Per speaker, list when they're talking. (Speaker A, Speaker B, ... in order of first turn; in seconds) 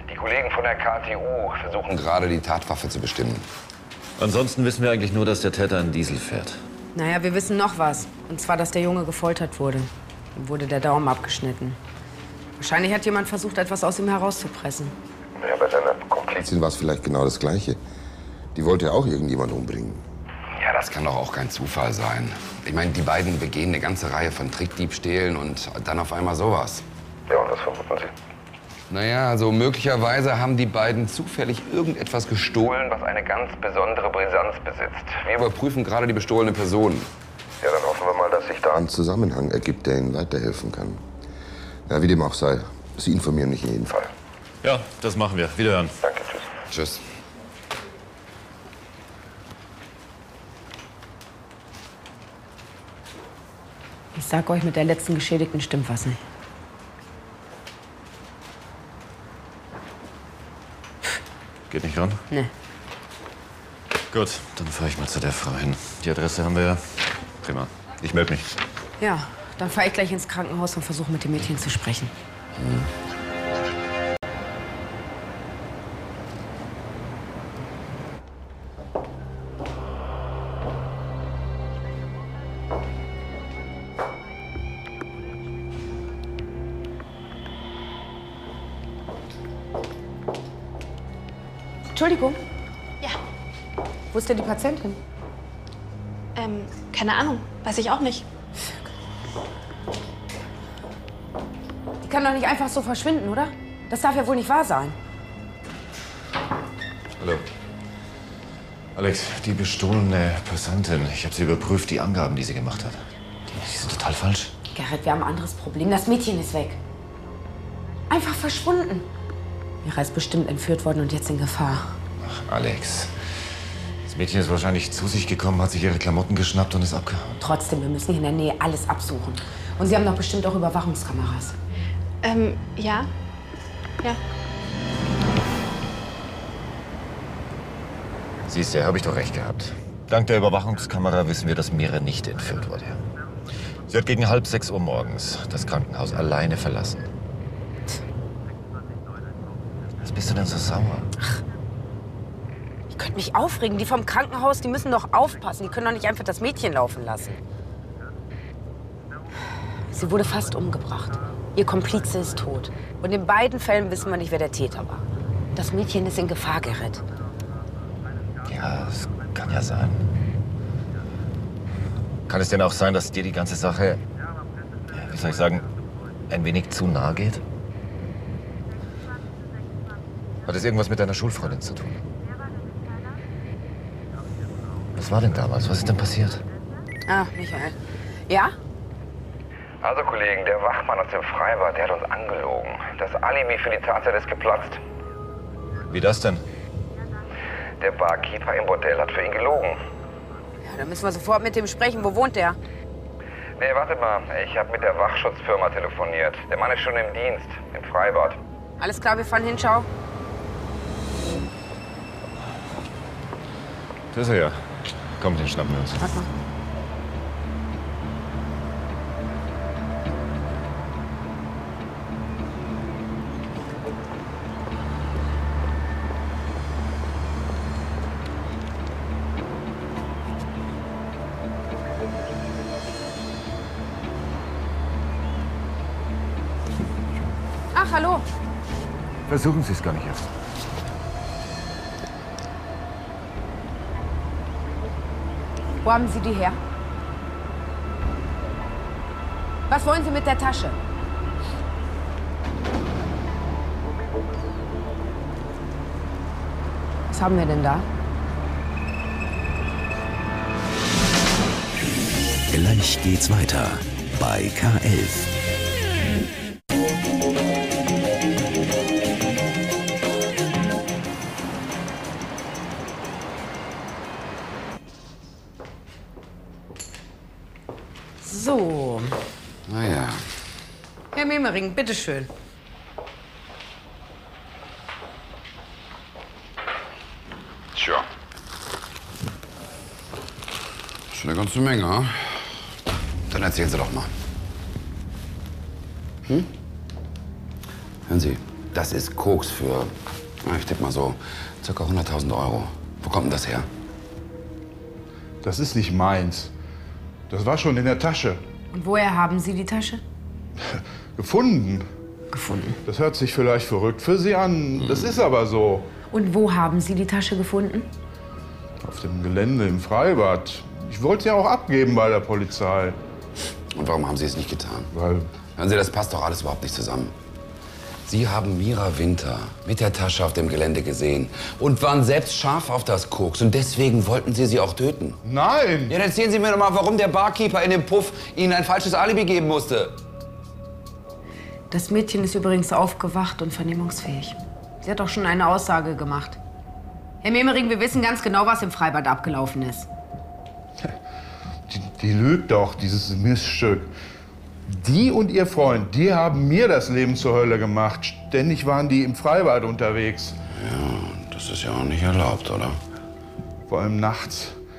Speaker A: 0.1-1.6, 15.4-16.4, 27.3-28.1, 32.8-35.2, 37.6-38.7, 46.0-46.4, 189.8-194.8, 197.8-199.8, 203.6-208.4
Speaker B: 0.5-3.5, 20.6-26.8, 28.9-34.3, 35.0-37.1, 46.7-47.0, 72.6-72.9, 279.7-280.2, 287.7-288.1, 291.1-292.5, 293.3-294.1, 298.1-299.9, 300.4-303.7, 314.8-315.2, 323.7-324.9, 325.6-327.1, 328.0-335.2, 335.9-340.0, 360.5-362.8
Speaker C: 4.2-6.6, 44.6-46.0, 61.7-62.2, 64.1-68.5, 107.2-107.4, 109.0-114.5, 122.2-123.1, 124.0-127.4, 138.4-143.0, 143.9-147.0, 150.0-151.1, 168.4-170.1, 172.3-174.0, 174.9-175.6, 176.3-177.4, 180.4-182.0, 184.9-186.4, 195.9-196.4, 214.1-214.6, 215.2-216.0, 239.3-240.2
Speaker D: 6.9-11.8, 12.6-14.9, 54.1-56.2, 69.0-72.1, 91.9-92.4, 94.1-95.0, 102.0-105.0, 114.7-116.8, 118.1-119.1, 119.8-121.9, 127.4-131.6, 152.9-157.4, 159.9-167.0, 187.1-187.8, 188.3-188.5, 200.6-202.6, 208.8-209.9, 216.0-216.3, 237.7-238.2, 245.8-246.6, 249.7-250.8, 257.1-257.9, 278.2-279.2, 281.1-282.3, 308.7-310.0, 312.3-312.8, 316.1-317.9, 341.7-346.4, 347.2-349.9
Speaker E: 16.4-17.8, 18.5-20.0, 38.7-41.0, 41.9-44.0
Speaker F: 96.3-98.3, 132.2-133.1
Speaker G: 262.5-265.3
Speaker H: 305.4-306.5, 307.3-308.4, 310.6-311.9, 312.9-315.9, 318.8-323.0, 324.9-325.3, 335.2-335.9, 351.7-353.9, 354.7-360.4, 363.7-364.6